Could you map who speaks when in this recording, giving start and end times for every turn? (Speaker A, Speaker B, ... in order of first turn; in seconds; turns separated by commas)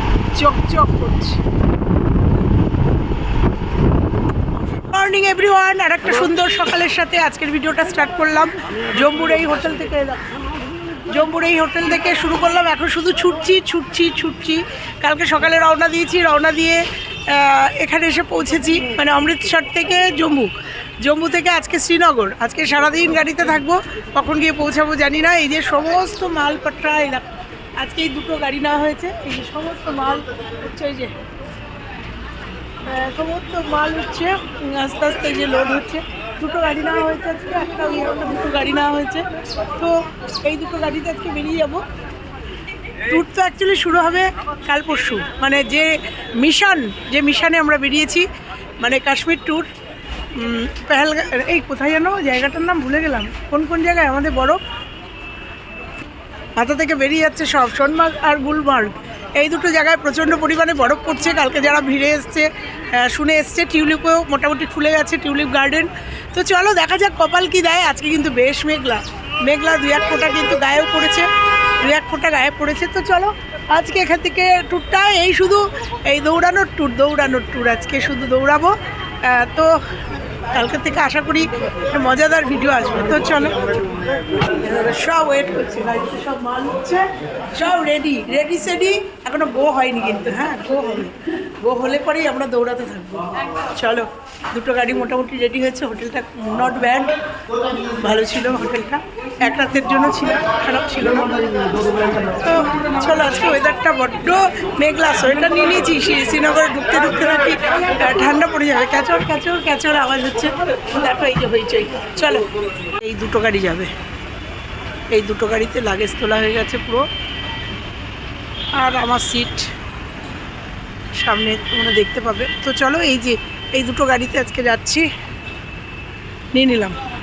Speaker A: 0.3-1.4, Speaker A: 4.6-10.3, Speaker A: 11.1-27.3, Speaker A: 27.8-31.1, Speaker A: 32.8-39.2, Speaker A: 39.8-41.8, Speaker A: 43.0-48.3, Speaker A: 48.8-49.7, Speaker A: 50.3-54.6, Speaker A: 56.6-79.8, Speaker A: 80.5-83.6, Speaker A: 84.4-97.2, Speaker A: 97.7-101.4, Speaker A: 102.3-112.5, Speaker A: 113.0-113.9, Speaker A: 115.1-117.0, Speaker A: 118.7-119.7, Speaker A: 121.1-125.1, Speaker A: 126.5-127.0